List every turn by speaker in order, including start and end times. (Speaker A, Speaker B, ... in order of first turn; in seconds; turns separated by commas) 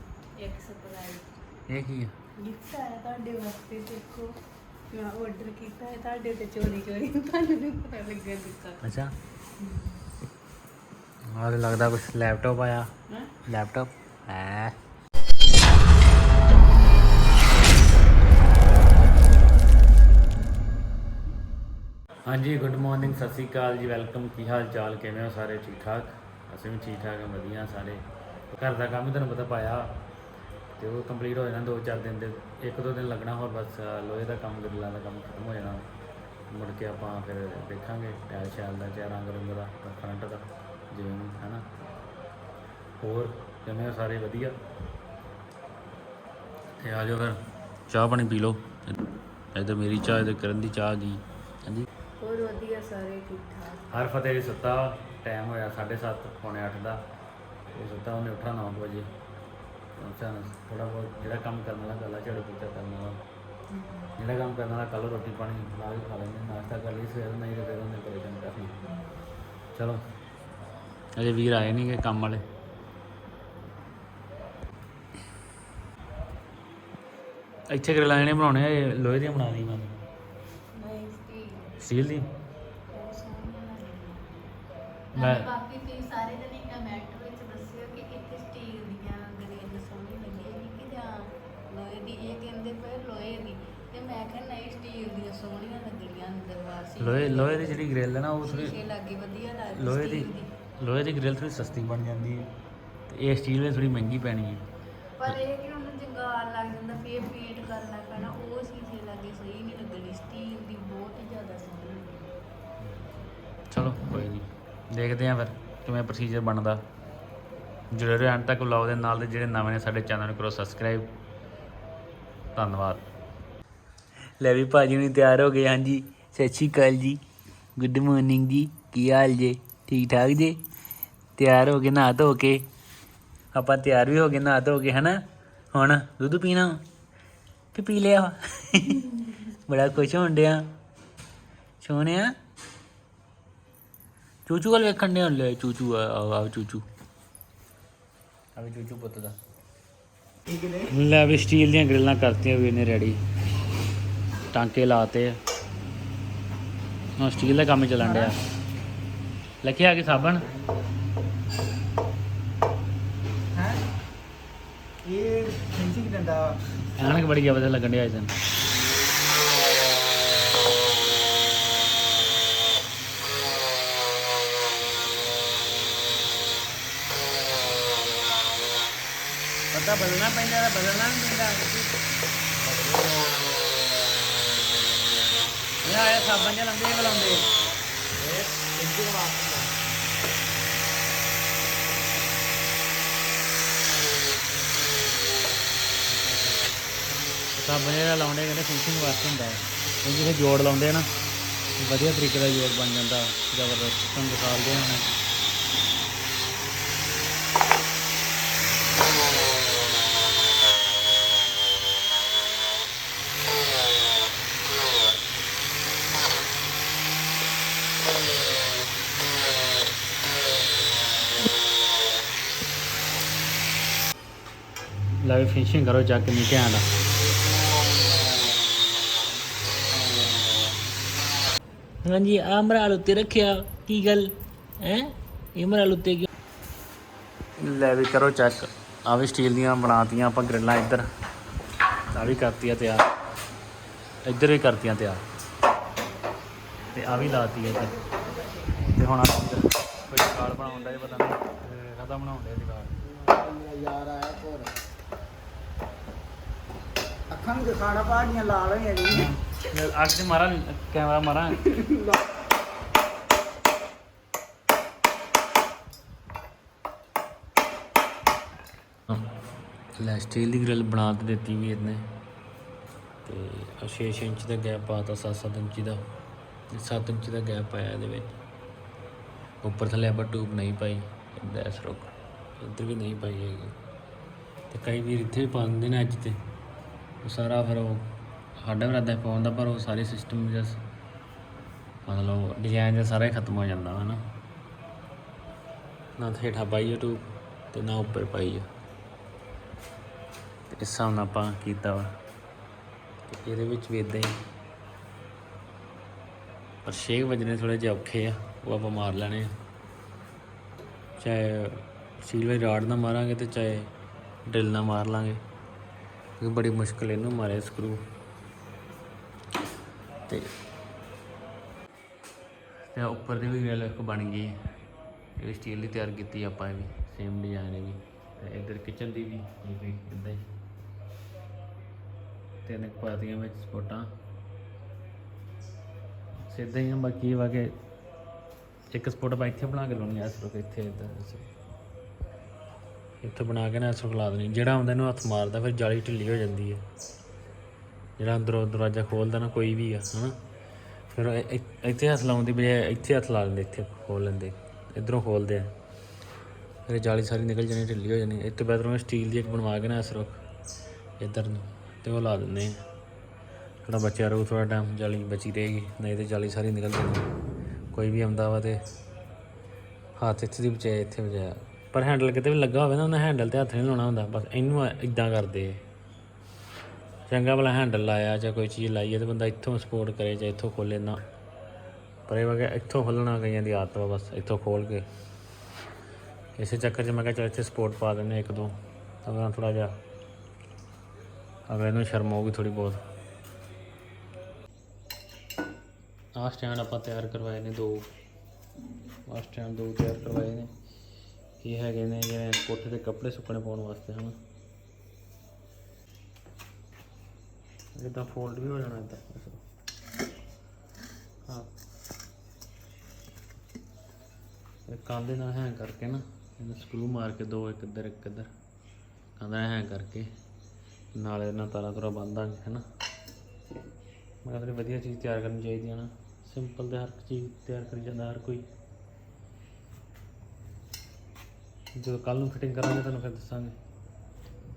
Speaker A: 0.4-1.3, Speaker B: 1.7-2.1, Speaker A: 2.4-4.3, Speaker A: 4.9-8.8, Speaker B: 8.8-9.1, Speaker A: 9.6-10.0, Speaker B: 11.3-12.9, Speaker B: 13.5-14.8, Speaker B: 22.2-28.0, Speaker B: 28.5-30.0, Speaker B: 30.8-35.8, Speaker B: 36.5-41.6, Speaker B: 43.0-44.5, Speaker B: 46.8-47.4, Speaker B: 47.9-49.0, Speaker B: 49.5-51.9, Speaker A: 52.2-53.9, Speaker B: 53.9-57.0, Speaker B: 57.7-59.1, Speaker B: 60.0-63.2, Speaker A: 63.7-64.1, Speaker B: 64.2-68.8, Speaker A: 68.8-69.2, Speaker B: 69.7-70.0, Speaker B: 71.2-72.4, Speaker B: 77.7-80.0, Speaker A: 80.7-81.8, Speaker B: 81.8-82.3, Speaker A: 82.9-84.5, Speaker A: 85.1-97.9, Speaker B: 85.2-85.5, Speaker B: 97.0-98.8, Speaker A: 98.4-100.5, Speaker B: 99.7-102.5, Speaker B: 103.1-104.7, Speaker A: 105.2-112.3, Speaker B: 112.8-116.8, Speaker B: 117.9-121.1, Speaker B: 122.5-123.0, Speaker B: 124.4-127.2, Speaker B: 127.8-130.6, Speaker B: 131.4-132.7, Speaker B: 133.5-136.8, Speaker B: 137.7-140.7, Speaker B: 141.8-142.3, Speaker B: 144.5-146.8, Speaker B: 148.6-149.4, Speaker C: 150.5-150.9, Speaker B: 150.8-153.2, Speaker B: 154.5-155.4, Speaker B: 157.2-158.4, Speaker B: 159.6-160.5, Speaker C: 160.5-160.9, Speaker C: 163.5-163.8, Speaker C: 165.0-166.6, Speaker B: 167.0-168.3, Speaker B: 179.7-181.9, Speaker B: 182.7-183.0, Speaker B: 185.8-187.5, Speaker C: 188.2-189.7, Speaker B: 197.5-201.1, Speaker B: 201.8-205.2, Speaker B: 225.2-226.9, Speaker B: 232.0-236.3, Speaker B: 237.6-241.1, Speaker B: 242.1-243.1, Speaker B: 244.2-245.2, Speaker B: 246.9-248.0, Speaker B: 248.9-253.1, Speaker C: 253.2-254.7, Speaker C: 257.3-259.3, Speaker B: 259.1-262.0, Speaker B: 270.0-272.1, Speaker B: 273.2-276.0, Speaker B: 276.7-278.3, Speaker B: 279.6-283.8, Speaker B: 284.7-286.4, Speaker B: 287.2-290.8, Speaker B: 292.1-294.2, Speaker B: 296.2-298.7, Speaker B: 300.7-302.1, Speaker B: 303.3-304.4, Speaker B: 306.9-309.5, Speaker B: 311.2-313.9, Speaker B: 314.5-315.4, Speaker B: 316.4-318.0, Speaker B: 322.9-324.6, Speaker B: 325.4-330.5, Speaker B: 332.6-334.1, Speaker B: 336.5-337.8, Speaker B: 338.9-341.5, Speaker B: 343.2-346.8, Speaker B: 348.2-350.4, Speaker B: 351.1-355.7, Speaker B: 356.9-360.4, Speaker B: 361.2-362.8, Speaker B: 363.9-367.3, Speaker B: 367.9-368.8, Speaker B: 370.2-375.8, Speaker B: 377.3-381.2, Speaker B: 382.3-385.1, Speaker B: 386.6-389.9, Speaker B: 391.7-393.0, Speaker B: 396.4-398.1, Speaker B: 399.3-400.7, Speaker B: 401.6-404.4, Speaker B: 408.0-409.6, Speaker B: 414.9-418.5, Speaker B: 419.4-420.3, Speaker B: 421.1-422.8, Speaker B: 424.4-428.7, Speaker B: 432.0-433.8